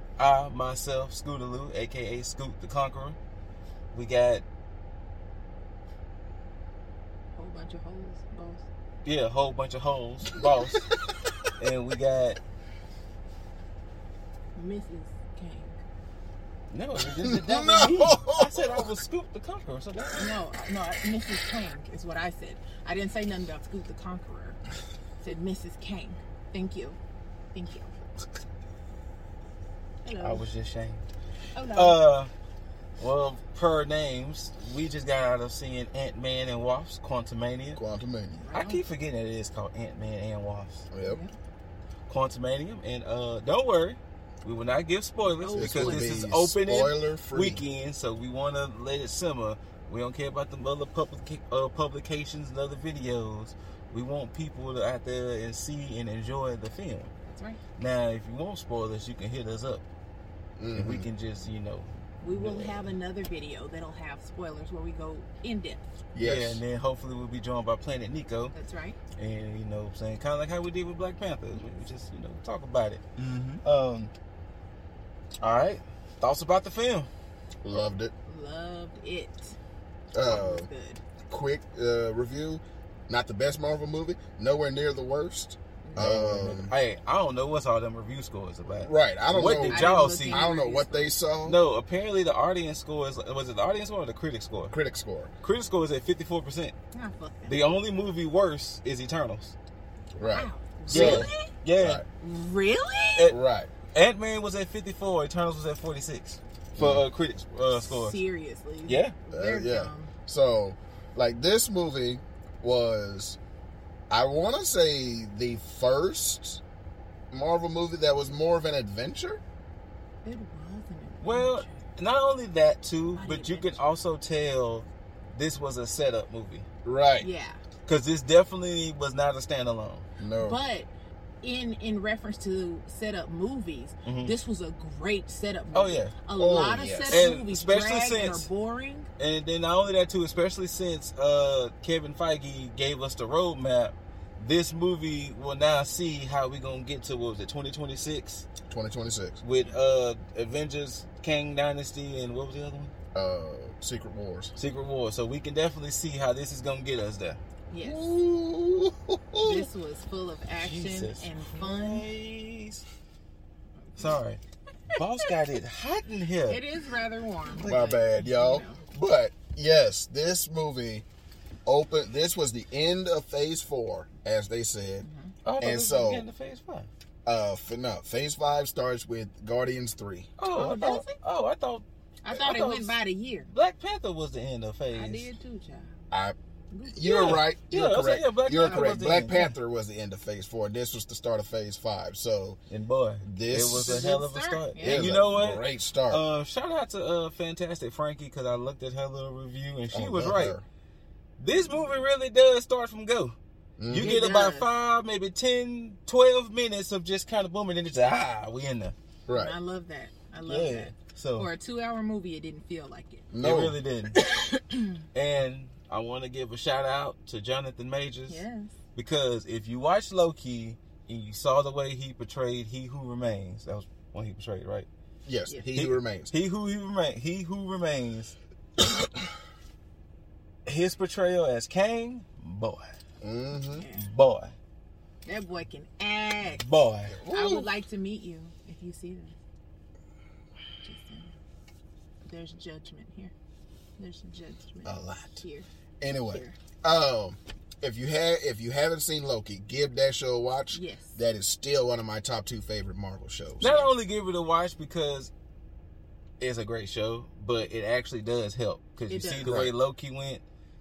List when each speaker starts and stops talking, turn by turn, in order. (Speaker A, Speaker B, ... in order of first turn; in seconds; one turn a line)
Speaker A: 0.2-3.2
Speaker A: 3.9-4.5
Speaker B: 7.4-8.7
Speaker A: 9.1-10.9
Speaker C: 10.5-11.4
Speaker A: 11.6-12.4
Speaker B: 14.6-15.8
Speaker A: 16.7-20.3
Speaker C: 17.2-18.9
Speaker B: 20.2-24.6
Speaker B: 25.2-27.0
Speaker B: 27.5-27.9
Speaker B: 30.1-30.5
Speaker A: 30.2-31.1
Speaker B: 31.6-32.0
Speaker A: 31.7-32.3
Speaker A: 33.0-37.8
Speaker C: 37.8-38.5
Speaker B: 38.4-38.9
Speaker A: 38.5-40.9
Speaker C: 40.9-41.2
Speaker B: 41.0-41.3
Speaker A: 42.1-57.1
Speaker B: 45.4-46.3
Speaker C: 45.6-47.6
Speaker B: 57.3-57.6
Speaker A: 57.8-59.9
Speaker C: 60.6-61.1
Speaker A: 60.7-62.9
Speaker B: 62.2-65.8
Speaker C: 66.1-66.6
Speaker A: 66.2-68.5
Speaker B: 68.5-69.0
Speaker A: 69.2-73.0
Speaker C: 73.2-73.6
Speaker A: 73.6-74.1
Speaker A: 75.4-77.1
Speaker C: 77.6-78.1
Speaker B: 78.3-79.6
Speaker C: 80.1-80.7
Speaker B: 80.2-81.0
Speaker C: 81.3-86.7
Speaker B: 85.8-86.3
Speaker A: 86.0-90.5
Speaker C: 88.8-91.6
Speaker B: 89.4-91.1
Speaker A: 91.4-94.7
Speaker C: 94.7-95.3
Speaker A: 95.4-96.7
Speaker B: 96.9-97.7
Speaker A: 97.5-99.5
Speaker B: 100.2-101.5
Speaker C: 100.2-102.0
Speaker A: 100.9-102.0
Speaker B: 102.2-103.3
Speaker C: 103.3-103.7
Speaker A: 103.9-108.2
Speaker C: 106.8-107.0
Speaker B: 107.8-110.1
Speaker A: 108.9-109.2
Speaker C: 109.3-113.4
Speaker C: 114.1-116.6
Speaker C: 117.3-119.4
Speaker B: 120.2-121.8
Speaker A: 121.2-126.7
Speaker B: 123.2-123.8
Speaker C: 126.8-127.3
Speaker B: 127.2-127.6
Speaker A: 127.9-130.1
Speaker C: 130.2-130.6
Speaker B: 130.4-130.9
Speaker B: 131.4-139.1
Speaker A: 134.1-134.4
Speaker A: 135.7-136.1
Speaker C: 136.4-137.3
Speaker A: 137.1-138.5
Speaker A: 139.2-148.5
Speaker C: 148.7-149.4
Speaker A: 149.4-152.9
Speaker C: 153.1-154.5
Speaker A: 154.6-157.4
Speaker B: 157.7-158.2
Speaker C: 157.8-159.7
Speaker B: 159.4-162.1
Speaker A: 160.6-162.8
Speaker B: 163.9-164.2
Speaker A: 164.0-164.4
Speaker B: 164.9-165.3
Speaker A: 164.9-166.6
Speaker B: 166.5-168.8
Speaker A: 167.4-167.9
Speaker C: 167.6-171.1
Speaker C: 171.7-175.1
Speaker B: 175.0-175.3
Speaker A: 175.4-176.9
Speaker C: 175.6-176.3
Speaker C: 177.3-180.3
Speaker A: 180.4-182.9
Speaker B: 180.5-181.2
Speaker B: 182.2-183.5
Speaker A: 183.5-185.3
Speaker B: 184.9-185.9
Speaker C: 186.1-186.4
Speaker B: 186.7-187.4
Speaker C: 186.9-192.6
Speaker A: 187.0-189.4
Speaker B: 188.6-189.5
Speaker A: 192.7-200.6
Speaker C: 193.2-194.1
Speaker B: 193.7-195.2
Speaker C: 194.8-196.2
Speaker C: 199.9-200.6
Speaker A: 201.4-203.3
Speaker B: 201.5-201.9
Speaker C: 203.8-204.2
Speaker A: 203.9-208.9
Speaker B: 203.9-204.7
Speaker C: 209.3-209.6
Speaker B: 209.3-213.3
Speaker A: 210.4-211.5
Speaker C: 213.3-213.8
Speaker A: 213.4-214.2
Speaker B: 214.2-214.9
Speaker A: 215.1-218.4
Speaker B: 218.3-218.7
Speaker A: 218.9-224.9
Speaker C: 225.3-226.3
Speaker A: 225.8-228.3
Speaker A: 230.7-232.9
Speaker C: 233.2-233.8
Speaker B: 233.7-234.1
Speaker A: 233.9-234.5
Speaker B: 235.2-239.4
Speaker A: 236.5-237.2
Speaker C: 237.1-237.7
Speaker B: 240.8-241.4
Speaker B: 242.2-243.3
Speaker B: 244.0-245.7
Speaker C: 244.8-245.4
Speaker C: 246.0-253.8
Speaker B: 246.3-246.6
Speaker B: 250.7-251.2
Speaker B: 253.6-253.9
Speaker A: 253.6-255.3
Speaker A: 256.4-260.4
Speaker B: 259.1-259.6
Speaker C: 259.4-259.7